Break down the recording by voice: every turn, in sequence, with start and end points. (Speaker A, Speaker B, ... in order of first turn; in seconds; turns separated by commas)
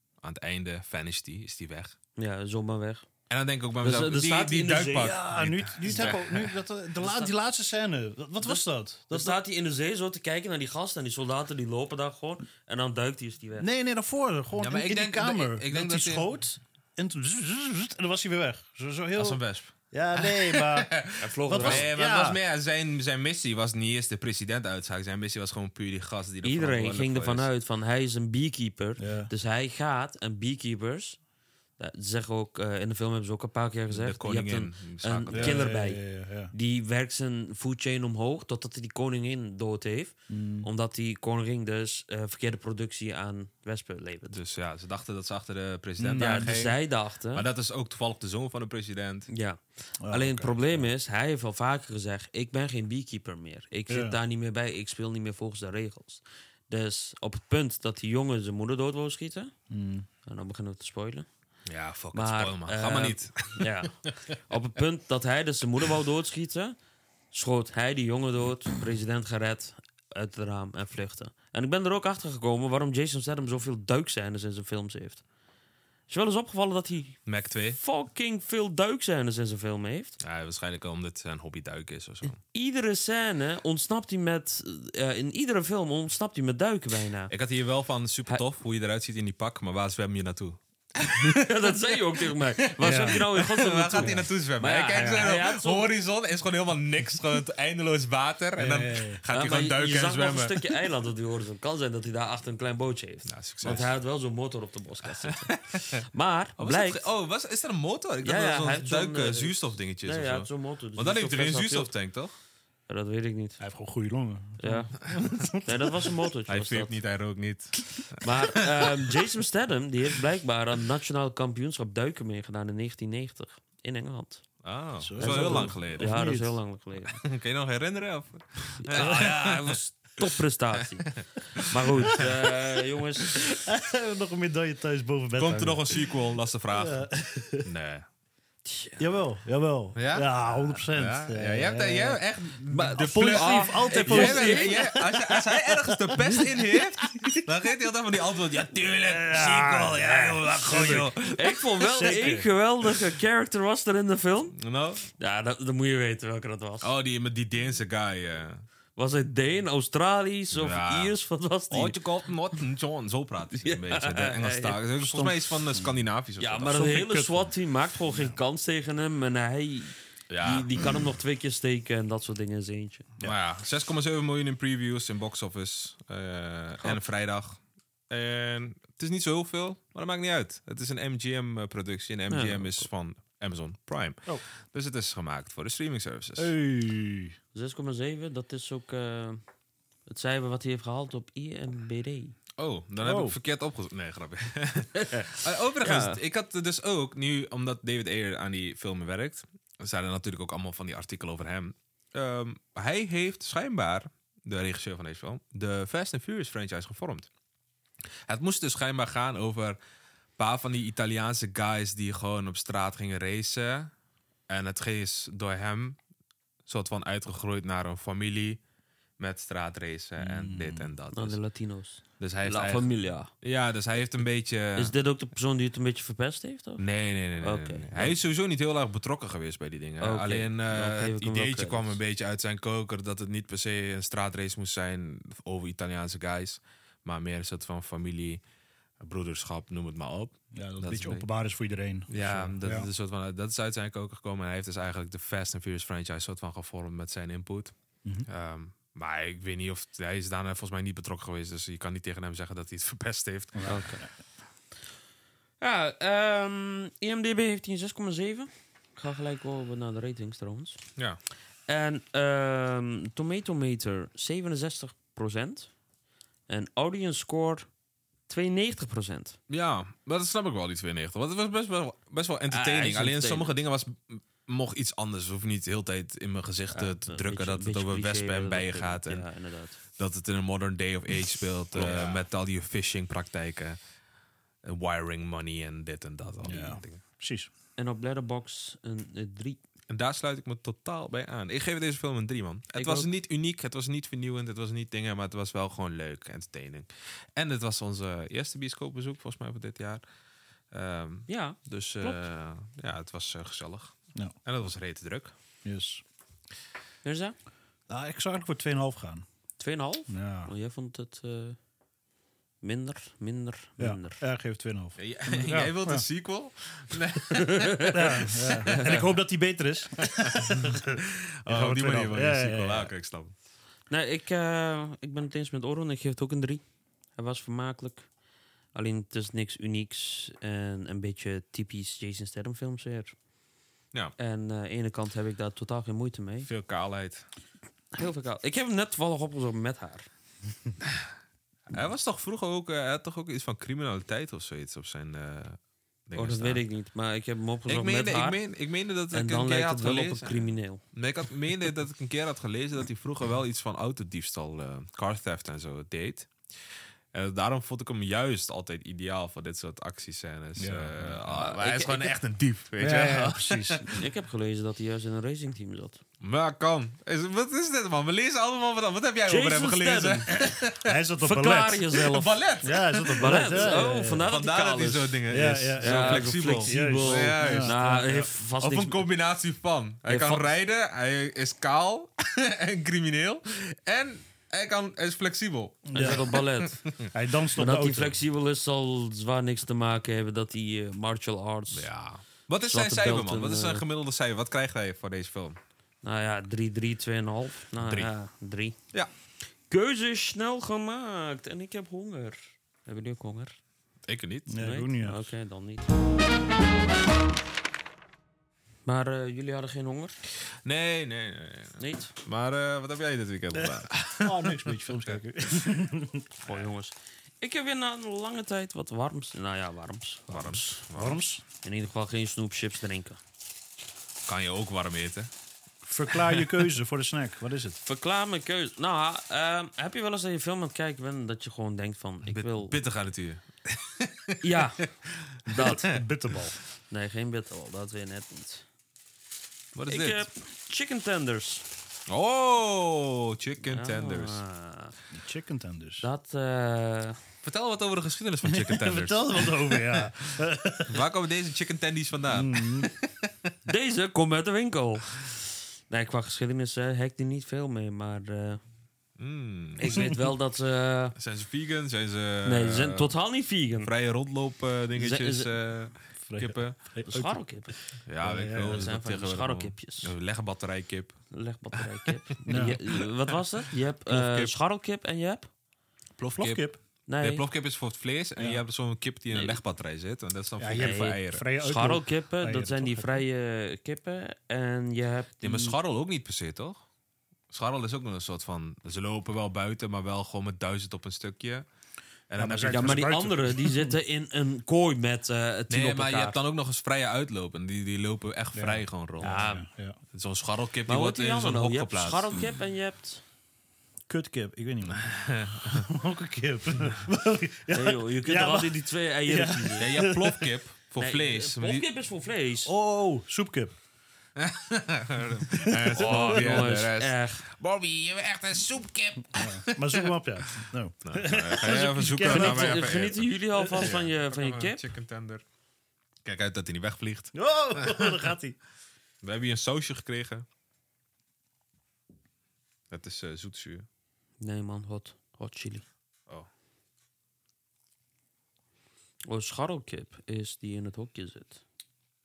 Speaker A: 0.2-1.9, Speaker B: 2.1-3.1, Speaker A: 3.3-6.5, Speaker B: 3.8-5.2, Speaker C: 5.0-9.4, Speaker B: 5.8-6.2, Speaker B: 7.0-7.3, Speaker B: 8.4-13.7, Speaker C: 13.6-22.4, Speaker A: 14.6-16.3, Speaker A: 19.1-27.5, Speaker B: 21.2-21.9, Speaker B: 26.4-31.2, Speaker C: 29.0-29.3, Speaker B: 31.8-44.4, Speaker A: 33.9-35.6, Speaker C: 35.3-36.5, Speaker C: 40.3-40.7, Speaker A: 44.3-46.8, Speaker C: 46.0-46.5, Speaker B: 46.1-47.5, Speaker A: 47.3-49.3, Speaker B: 49.3-59.5, Speaker C: 50.0-50.9, Speaker C: 53.9-54.2, Speaker C: 59.7-60.1, Speaker B: 60.2-61.3, Speaker A: 61.7-64.1, Speaker B: 62.1-66.8, Speaker B: 67.3-75.2, Speaker B: 76.1-80.2, Speaker A: 77.2-77.8, Speaker A: 80.2-82.4, Speaker B: 82.4-87.3, Speaker A: 87.3-91.7, Speaker B: 91.1-95.9, Speaker A: 92.6-100.6, Speaker C: 92.8-93.2, Speaker C: 94.0-94.2, Speaker C: 98.6-99.2, Speaker B: 99.3-107.1, Speaker A: 103.2-103.9, Speaker A: 105.2-106.0, Speaker A: 106.6-112.3, Speaker B: 108.2-111.9, Speaker B: 112.9-113.6, Speaker C: 113.6-115.9, Speaker B: 114.6-114.9, Speaker B: 115.6-117.0, Speaker A: 116.5-119.0, Speaker B: 118.2-124.6, Speaker A: 124.6-126.2, Speaker C: 125.0-126.6, Speaker B: 125.2-127.2, Speaker A: 127.2-129.8, Speaker B: 128.8-133.6, Speaker C: 129.0-129.3, Speaker A: 131.1-132.3, Speaker C: 133.5-136.1, Speaker A: 135.4-137.1, Speaker C: 136.7-137.7, Speaker A: 137.6-138.1, Speaker B: 138.6-139.2, Speaker C: 139.0-142.2, Speaker A: 139.9-152.2, Speaker B: 142.7-145.0, Speaker C: 142.9-147.4, Speaker C: 149.0-151.1, Speaker B: 150.8-154.6, Speaker C: 152.0-152.4, Speaker A: 154.6-155.0, Speaker B: 155.2-156.9, Speaker A: 156.8-158.6, Speaker B: 158.9-162.0, Speaker A: 160.5-161.1, Speaker A: 161.7-166.9, Speaker B: 163.6-165.4, Speaker C: 165.7-166.0, Speaker B: 166.4-173.1, Speaker C: 166.7-167.5, Speaker C: 168.1-168.4, Speaker A: 170.3-170.7, Speaker A: 173.2-184.2, Speaker B: 182.3-182.9, Speaker A: 184.7-186.5, Speaker C: 186.4-187.3, Speaker B: 187.5-189.4, Speaker B: 190.1-192.3, Speaker A: 192.6-207.3, Speaker C: 193.0-193.3, Speaker B: 195.8-196.2, Speaker A: 208.3-209.8, Speaker A: 210.4-213.9, Speaker A: 214.5-216.0, Speaker A: 216.7-218.6, Speaker A: 219.2-221.4, Speaker C: 220.2-220.9, Speaker B: 221.1-223.3, Speaker A: 222.2-222.9, Speaker A: 223.4-224.9, Speaker B: 224.8-226.8, Speaker A: 226.8-238.4, Speaker B: 227.4-228.2, Speaker B: 230.0-232.0, Speaker A: 239.0-241.3, Speaker C: 240.5-242.9, Speaker A: 242.1-247.7, Speaker A: 248.2-253.7, Speaker C: 253.5-254.1, Speaker B: 253.7-254.0, Speaker B: 255.6-260.8, Speaker B: 261.7-265.7, Speaker B: 266.5-267.7, Speaker B: 268.3-269.4, Speaker A: 269.5-279.2, Speaker B: 272.5-273.5, Speaker B: 276.7-279.8, Speaker A: 280.0-283.8, Speaker C: 281.8-282.2, Speaker A: 284.6-287.0, Speaker C: 286.4-287.5, Speaker B: 287.8-289.6, Speaker A: 289.9-300.0, Speaker B: 292.8-293.1, Speaker A: 300.7-305.3, Speaker B: 301.3-302.2, Speaker C: 305.6-306.0, Speaker B: 307.0-307.3, Speaker C: 307.9-309.2, Speaker B: 309.6-311.6, Speaker C: 310.1-310.5, Speaker B: 312.6-314.2, Speaker C: 313.8-316.0, Speaker A: 315.0-317.9, Speaker B: 317.3-319.1, Speaker C: 317.9-322.9, Speaker A: 320.1-323.3, Speaker B: 323.9-326.6, Speaker B: 327.1-328.1, Speaker B: 328.7-333.1, Speaker B: 334.2-336.5, Speaker A: 336.4-337.2, Speaker B: 337.9-340.1, Speaker A: 341.7-346.6, Speaker B: 346.1-348.4, Speaker A: 347.7-356.3, Speaker B: 349.1-350.8, Speaker A: 357.1-364.0, Speaker C: 360.6-361.2, Speaker B: 361.3-362.1, Speaker C: 362.8-363.9, Speaker B: 363.9-366.0, Speaker A: 366.2-370.9, Speaker B: 369.3-370.4, Speaker C: 370.8-371.9, Speaker B: 371.2-372.4, Speaker A: 371.9-387.1, Speaker C: 372.6-374.3, Speaker B: 373.1-375.2, Speaker C: 375.3-378.3, Speaker B: 375.8-379.1, Speaker B: 380.1-380.5, Speaker C: 385.9-386.3, Speaker B: 385.9-386.9, Speaker C: 387.1-388.2, Speaker B: 387.5-391.9, Speaker A: 391.7-395.6, Speaker B: 392.6-393.8, Speaker B: 396.0-398.8, Speaker A: 397.8-398.1, Speaker B: 399.7-403.6, Speaker A: 404.1-404.6, Speaker C: 404.5-405.3, Speaker B: 404.6-405.9, Speaker B: 408.8-410.1, Speaker A: 410.6-415.1, Speaker B: 411.8-412.1, Speaker C: 413.6-416.3, Speaker B: 416.4-420.8, Speaker A: 420.3-421.2, Speaker C: 420.9-421.4, Speaker B: 421.6-423.2, Speaker A: 424.3-425.3, Speaker C: 425.8-427.8, Speaker B: 427.9-432.8, Speaker A: 432.2-434.6, Speaker B: 434.4-434.9, Speaker C: 435.5-436.5, Speaker B: 435.5-435.9, Speaker A: 435.5-435.9, Speaker B: 436.9-438.6, Speaker A: 439.7-440.3, Speaker B: 439.9-441.6, Speaker A: 442.1-444.4, Speaker B: 443.6-444.9, Speaker C: 445.1-446.1, Speaker B: 446.0-447.2, Speaker A: 447.4-450.1, Speaker C: 448.4-451.0, Speaker A: 450.9-453.3, Speaker C: 452.3-452.9, Speaker B: 453.6-458.6, Speaker A: 459.2-460.1, Speaker B: 459.8-461.1, Speaker C: 459.9-460.2, Speaker A: 461.1-463.1, Speaker B: 462.4-463.9, Speaker A: 463.8-466.8, Speaker B: 464.9-465.5, Speaker C: 466.2-467.4, Speaker B: 467.1-467.8, Speaker A: 468.1-471.1, Speaker C: 468.2-468.9, Speaker B: 468.6-470.1, Speaker B: 471.3-475.5, Speaker C: 472.4-472.8, Speaker A: 472.5-473.0, Speaker A: 474.1-474.5, Speaker A: 476.2-476.7, Speaker C: 476.4-476.8, Speaker B: 477.1-477.4, Speaker A: 477.2-481.4, Speaker C: 480.6-483.2, Speaker B: 480.8-485.8, Speaker A: 485.4-486.8, Speaker A: 487.5-491.6, Speaker A: 492.3-493.1, Speaker C: 492.4-493.9, Speaker B: 492.7-496.4, Speaker A: 495.7-499.4, Speaker C: 498.5-500.0, Speaker B: 499.2-499.7, Speaker A: 500.1-502.3, Speaker B: 500.9-503.2, Speaker C: 504.1-510.5, Speaker A: 504.9-505.9, Speaker B: 507.7-509.9, Speaker A: 509.8-511.9, Speaker B: 511.0-512.7, Speaker C: 512.6-513.7, Speaker A: 514.4-525.4, Speaker C: 515.5-516.6, Speaker B: 515.9-517.4, Speaker C: 519.3-522.9, Speaker B: 521.7-524.8, Speaker C: 523.6-523.9, Speaker A: 526.2-528.3, Speaker C: 527.3-528.6, Speaker A: 529.2-530.4, Speaker A: 532.9-533.9, Speaker B: 534.4-535.8, Speaker B: 539.2-541.6